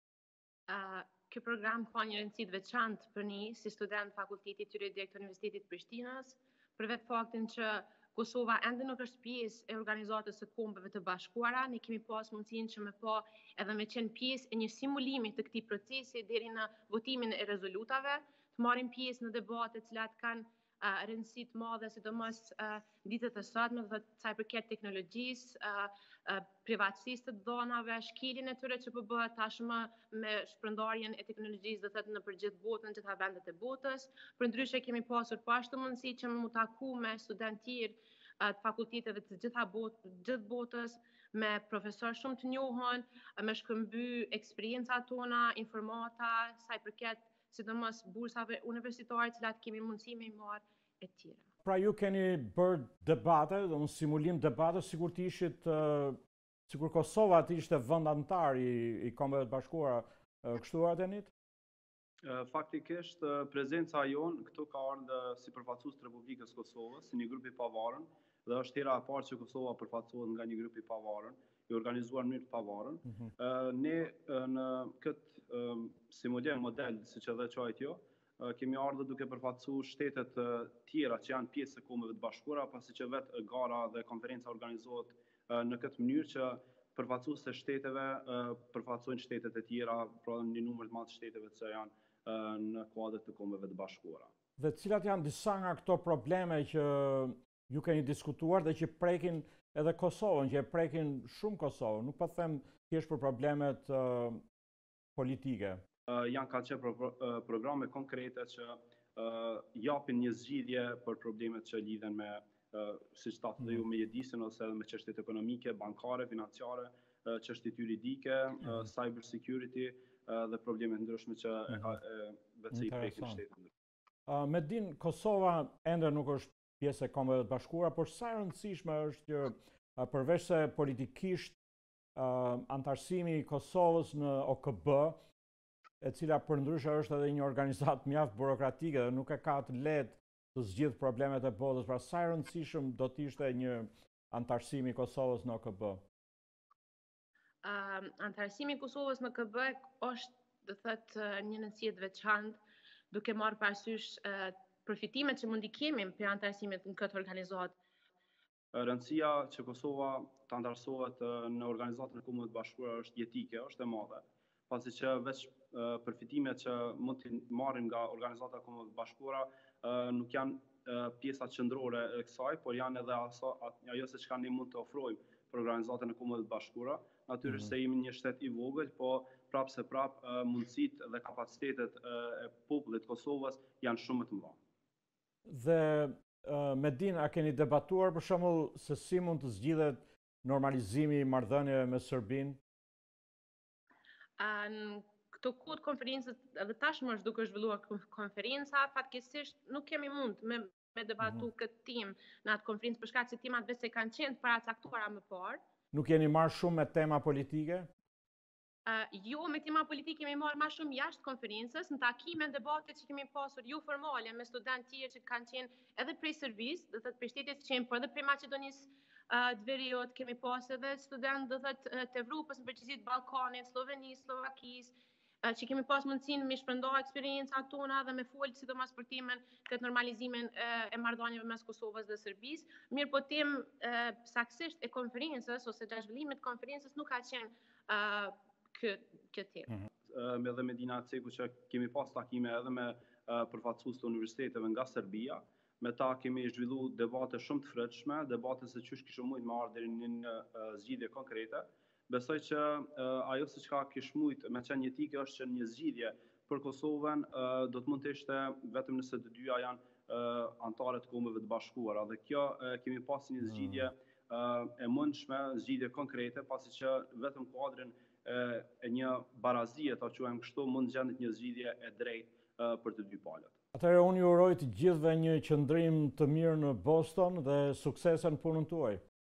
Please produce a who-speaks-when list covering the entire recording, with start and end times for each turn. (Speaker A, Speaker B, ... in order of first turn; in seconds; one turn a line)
Speaker A: 0.7-51.4
Speaker B: 51.6-61.3
Speaker C: 62.2-94.3
Speaker B: 94.6-104.4
Speaker B: 105.2-105.8
Speaker C: 106.1-123.7
Speaker B: 122.7-123.4
Speaker B: 124.3-131.6
Speaker B: 132.2-135.2
Speaker B: 136.0-146.0
Speaker A: 147.6-152.6
Speaker A: 153.1-157.8
Speaker C: 158.7-184.6
Speaker B: 185.5-192.6
Speaker A: 194.4-205.6
Speaker B: 205.9-207.9
Speaker A: 208.8-239.7
Speaker C: 240.1-273.5
Speaker B: 273.7-279.0